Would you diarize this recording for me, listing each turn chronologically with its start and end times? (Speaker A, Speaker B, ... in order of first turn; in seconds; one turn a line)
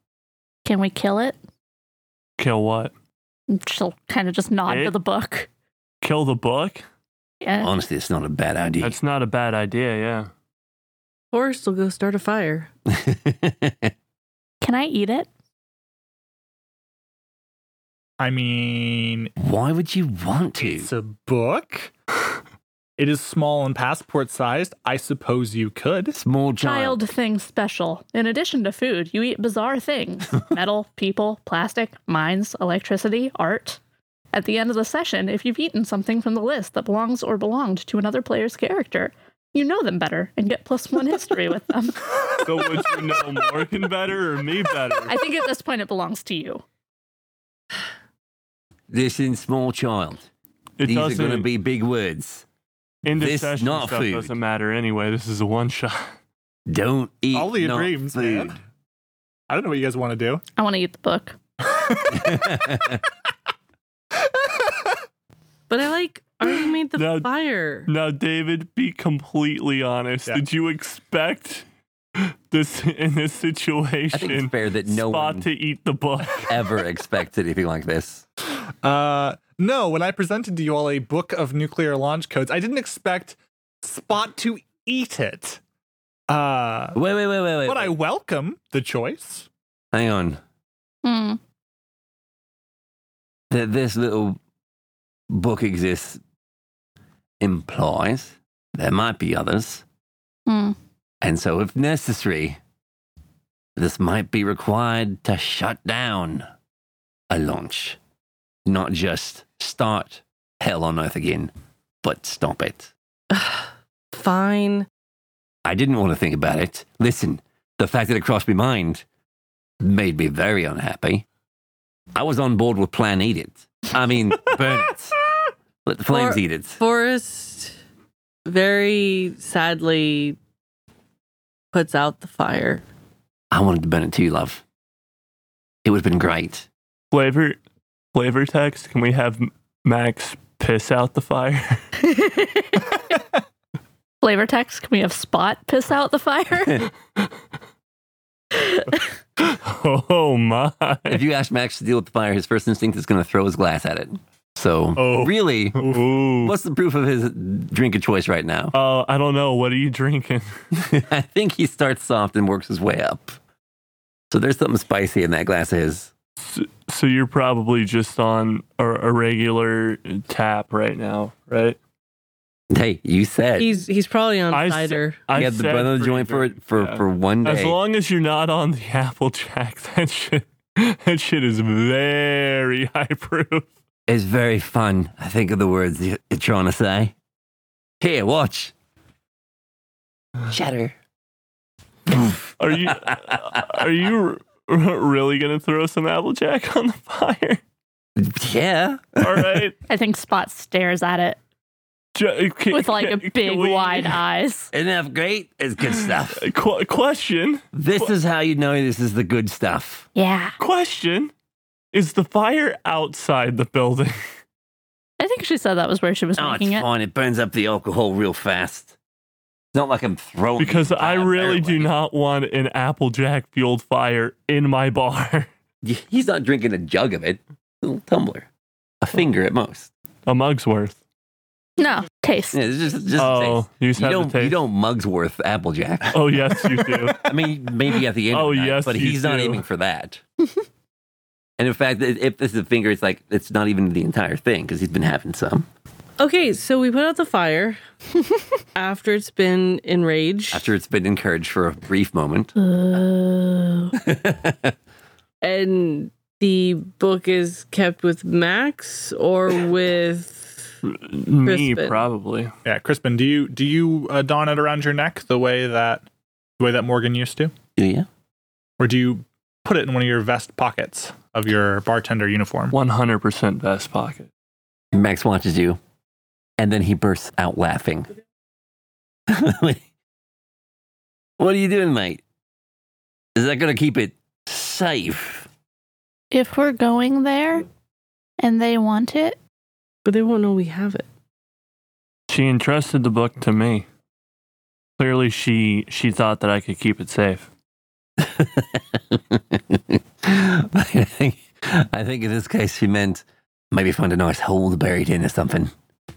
Speaker A: 0.7-1.4
Speaker B: 2.4-2.9
Speaker A: 3.5-5.5
Speaker B: 4.7-4.9
Speaker B: 6.0-6.9
Speaker A: 7.4-7.7
Speaker C: 7.6-8.9
Speaker B: 8.8-10.3
Speaker D: 11.3-12.7
Speaker C: 12.9-13.9
Speaker A: 14.6-15.3
Speaker E: 18.2-19.3
Speaker C: 19.4-20.9
Speaker E: 20.6-21.9
Speaker E: 23.0-26.2
Speaker C: 26.2-27.0
Speaker A: 26.6-33.8
Speaker A: 34.3-42.1
Speaker B: 42.4-45.2
Speaker A: 45.1-46.6
Speaker C: 48.9-50.3
Speaker B: 50.8-51.5
Speaker C: 50.8-52.4
Speaker B: 53.0-56.1
Speaker C: 53.1-54.3
Speaker C: 56.7-58.6
Speaker E: 57.3-58.6
Speaker E: 59.5-60.4
Speaker A: 60.6-61.4
Speaker E: 61.6-62.9
Speaker C: 62.1-63.0
Speaker E: 64.2-65.0
Speaker D: 65.7-67.9
Speaker B: 67.0-67.3
Speaker B: 67.9-71.7
Speaker B: 72.2-76.7
Speaker C: 74.1-75.5
Speaker C: 76.5-78.2
Speaker E: 78.8-85.6
Speaker E: 86.3-87.0
Speaker C: 86.9-87.9
Speaker E: 87.7-89.5
Speaker C: 89.9-90.4
Speaker A: 91.0-91.4
Speaker C: 93.5-94.4
Speaker C: 95.3-96.2
Speaker C: 97.4-99.8
Speaker A: 100.5-100.8
Speaker C: 101.2-102.6
Speaker C: 103.8-106.5
Speaker C: 107.3-108.0
Speaker C: 108.7-111.5
Speaker C: 112.0-112.9
Speaker D: 113.3-114.9
Speaker C: 115.7-119.0
Speaker C: 119.8-121.2
Speaker C: 122.1-125.2
Speaker C: 125.8-126.8
Speaker D: 126.1-127.8
Speaker D: 128.4-130.4
Speaker D: 131.7-132.8
Speaker C: 133.5-134.6
Speaker C: 135.8-136.7
Speaker B: 137.1-137.6
Speaker B: 138.1-141.8
Speaker A: 142.0-143.0
Speaker A: 144.2-146.9
Speaker A: 148.5-149.0
Speaker B: 149.4-151.2
Speaker C: 151.1-158.7
Speaker E: 154.9-156.0
Speaker B: 155.8-156.6
Speaker B: 158.7-160.5
Speaker C: 160.7-163.4
Speaker C: 164.3-166.1
Speaker B: 166.4-171.8
Speaker C: 172.7-173.7
Speaker D: 173.6-175.2
Speaker B: 174.5-183.7
Speaker C: 175.3-177.8
Speaker C: 184.1-187.1
Speaker C: 188.0-188.7
Speaker C: 190.5-190.9
Speaker C: 192.1-193.8
Speaker B: 192.6-197.6
Speaker C: 198.2-199.6
Speaker B: 199.2-199.8
Speaker A: 199.9-201.4
Speaker B: 202.1-204.2
Speaker A: 202.7-204.7
Speaker C: 204.7-206.4
Speaker B: 206.3-208.1
Speaker C: 207.7-210.1
Speaker A: 210.2-210.6
Speaker B: 210.6-211.3
Speaker B: 211.9-214.2
Speaker A: 215.2-216.9
Speaker C: 216.4-218.9
Speaker C: 219.7-221.9
Speaker B: 220.6-225.5
Speaker C: 225.8-228.5
Speaker C: 229.0-229.9
Speaker B: 230.3-231.0
Speaker A: 231.8-232.6
Speaker C: 232.5-240.2
Speaker B: 233.2-234.6
Speaker B: 236.1-237.4
Speaker B: 238.3-239.7
Speaker C: 241.6-245.7
Speaker D: 246.2-247.8
Speaker D: 248.7-250.7
Speaker C: 250.5-252.5
Speaker A: 252.6-253.9
Speaker C: 254.0-254.7
Speaker D: 255.4-260.7
Speaker B: 260.9-262.5
Speaker D: 261.4-262.0
Speaker E: 262.6-266.1
Speaker E: 266.6-267.5
Speaker C: 267.8-268.1
Speaker E: 268.8-272.7
Speaker B: 272.7-274.3
Speaker C: 274.9-275.8
Speaker C: 276.6-278.1
Speaker C: 279.3-279.8
Speaker C: 281.4-282.2
Speaker C: 283.4-285.5
Speaker A: 286.3-287.6
Speaker A: 288.4-289.4
Speaker D: 290.1-291.1
Speaker B: 292.3-293.9
Speaker B: 295.0-297.5
Speaker C: 298.2-305.7